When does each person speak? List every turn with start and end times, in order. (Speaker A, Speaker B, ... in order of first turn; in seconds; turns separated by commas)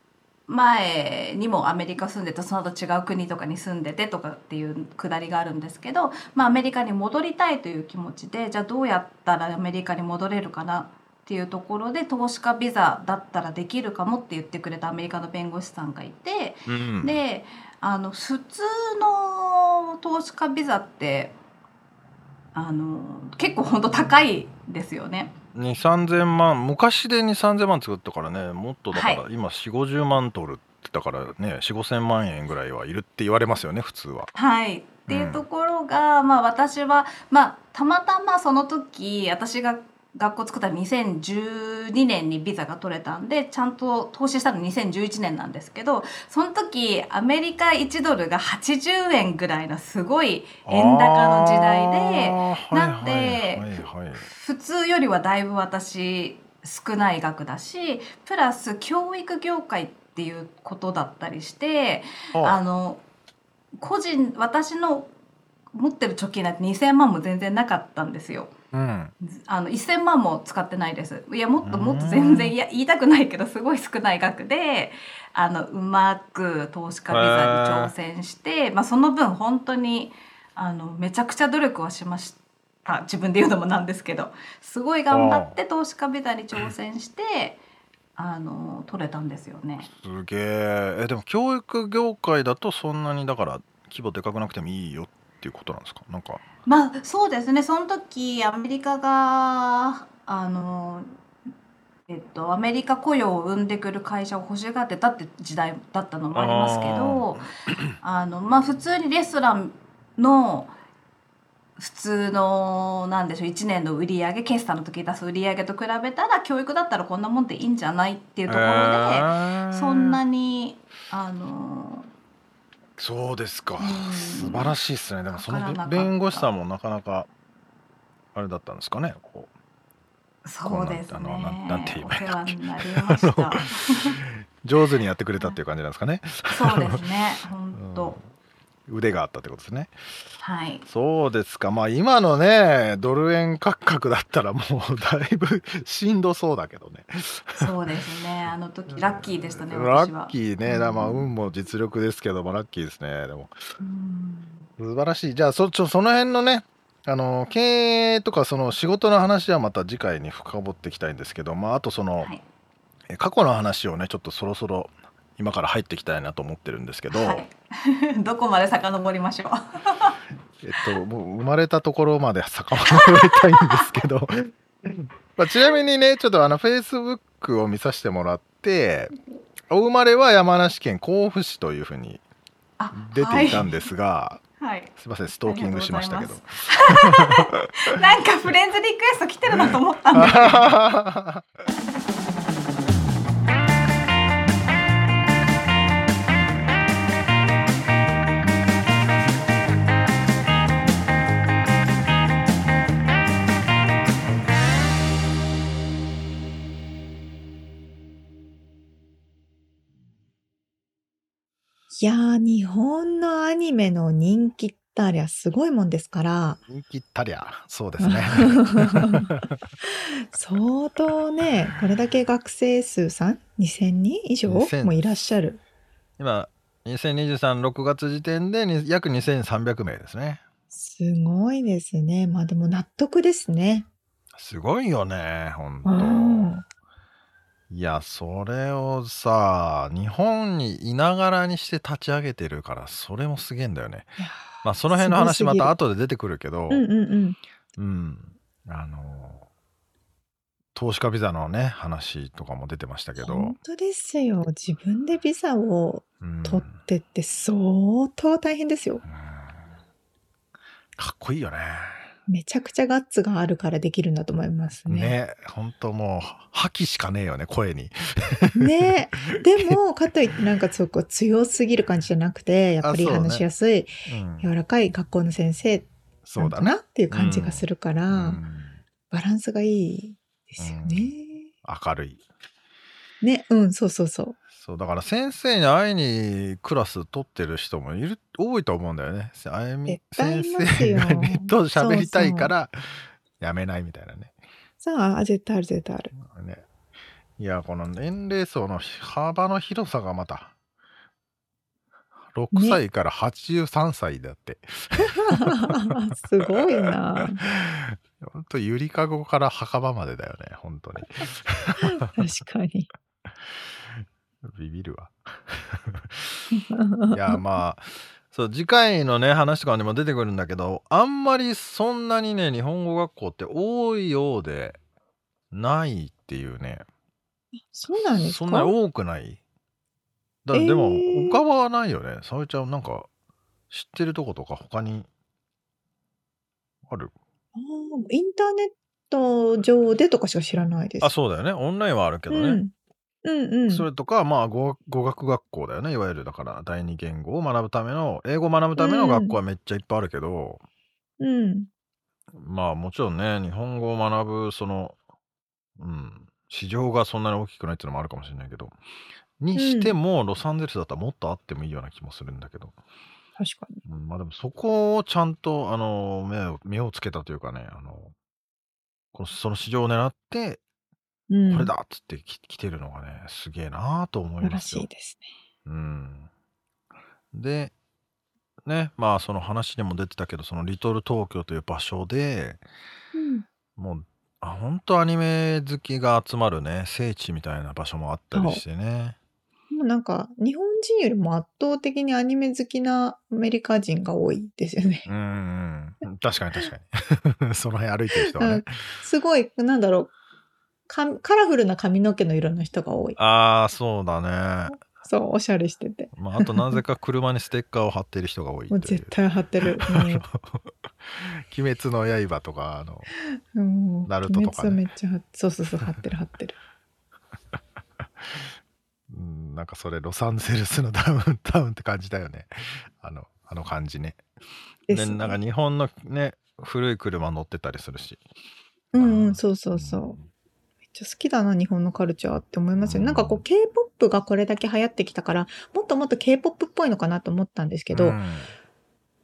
Speaker A: 0.5-21.3, Speaker B: 16.7-17.2, Speaker A: 22.5-25.3, Speaker B: 25.5-34.3, Speaker A: 28.9-29.2, Speaker A: 34.3-63.0, Speaker B: 35.1-35.4, Speaker B: 50.6-54.3, Speaker B: 62.3-62.6, Speaker A: 63.8-65.1, Speaker A: 65.7-68.5, Speaker B: 68.7-69.1, Speaker A: 69.2-87.6, Speaker B: 71.6-72.5, Speaker B: 77.1-77.9, Speaker B: 85.1-85.5, Speaker A: 88.2-89.9, Speaker B: 89.9-96.4, Speaker A: 96.6-101.1, Speaker A: 102.1-107.5, Speaker B: 106.3-107.9, Speaker A: 108.0-110.7, Speaker A: 111.8-122.1, Speaker B: 118.5-120.2, Speaker B: 123.0-127.3, Speaker A: 123.8-124.7, Speaker A: 125.3-126.5, Speaker B: 128.3-129.5, Speaker A: 130.4-134.2, Speaker B: 130.6-137.0, Speaker A: 136.5-138.2, Speaker B: 137.7-138.2, Speaker B: 138.9-139.9, Speaker A: 140.4-140.8, Speaker B: 140.9-147.7, Speaker A: 147.6-151.3, Speaker B: 148.9-153.6, Speaker A: 153.8-154.7, Speaker B: 154.8-162.3, Speaker B: 163.1-167.4, Speaker A: 167.1-170.2, Speaker B: 170.6-179.1, Speaker A: 172.9-173.9, Speaker B: 179.7-182.2, Speaker A: 182.8-183.8, Speaker B: 182.9-184.4, Speaker A: 184.6-184.9, Speaker B: 185.0-187.7, Speaker A: 185.4-190.7, Speaker B: 189.5-191.4, Speaker C: 211.9-216.6, Speaker B: 216.7-219.4, Speaker C: 218.0-219.3, Speaker C: 219.8-225.6, Speaker B: 224.4-225.0, Speaker B: 226.2-230.4, Speaker C: 230.7-233.9, Speaker B: 234.3-236.5, Speaker C: 235.8-236.6, Speaker B: 237.7-246.8, Speaker C: 244.2-245.7, Speaker C: 246.7-247.4, Speaker B: 247.8-249.4, Speaker B: 250.7-253.6, Speaker C: 253.2-259.0, Speaker B: 256.2-256.8, Speaker B: 259.0-259.7, Speaker B: 261.0-262.1, Speaker C: 262.3-265.1, Speaker B: 264.9-269.2, Speaker C: 268.5-278.4, Speaker B: 272.8-273.4, Speaker B: 274.1-274.5, Speaker B: 276.2-278.8, Speaker C: 279.1-281.5, Speaker B: 280.6-281.1, Speaker B: 281.6-282.2, Speaker C: 283.2-284.4, Speaker B: 284.5-294.3, Speaker C: 289.9-292.5, Speaker C: 294.8-296.1, Speaker B: 296.1-296.6, Speaker B: 297.4-300.5, Speaker B: 302.3-312.3, Speaker C: 302.5-302.8, Speaker C: 305.2-307.4, Speaker C: 311.8-312.9, Speaker B: 313.9-316.3, Speaker C: 316.5-317.4, Speaker B: 317.1-324.8, Speaker B: 325.5-326.9, Speaker C: 327.7-328.7, Speaker B: 327.9-329.4, Speaker B: 330.4-333.1, Speaker C: 330.5-331.4, Speaker B: 333.7-335.1, Speaker B: 336.9-337.1, Speaker C: 337.5-341.1, Speaker B: 341.0-342.6, Speaker C: 342.3-342.7, Speaker C: 343.2-343.9, Speaker B: 343.7-350.6, Speaker C: 348.8-349.4, Speaker C: 351.2-351.7, Speaker B: 352.3-355.0, Speaker B: 355.8-358.8, Speaker B: 359.4-362.7, Speaker C: 359.5-359.9, Speaker C: 363.4-363.8, Speaker B: 363.9-368.1, Speaker B: 369.1-370.6, Speaker C: 371.3-371.7, Speaker B: 371.5-374.9, Speaker C: 374.4-375.3, Speaker B: 375.6-376.3, Speaker B: 377.3-377.7, Speaker B: 378.6-382.6, Speaker C: 383.1-383.4, Speaker B: 383.8-389.1, Speaker C: 388.3-388.6, Speaker C: 389.7-395.1, Speaker B: 395.1-399.0, Speaker C: 398.2-400.1, Speaker C: 400.9-403.2, Speaker B: 403.2-404.8, Speaker C: 404.7-406.8, Speaker B: 406.1-413.1, Speaker C: 408.7-410.2, Speaker C: 413.5-416.6, Speaker B: 414.1-414.8, Speaker B: 418.0-418.5, Speaker B: 419.1-424.2, Speaker C: 424.9-425.4, Speaker B: 424.9-428.2, Speaker C: 428.9-430.1, Speaker B: 428.9-430.2, Speaker C: 430.9-438.2, Speaker B: 432.8-433.4, Speaker B: 437.9-438.5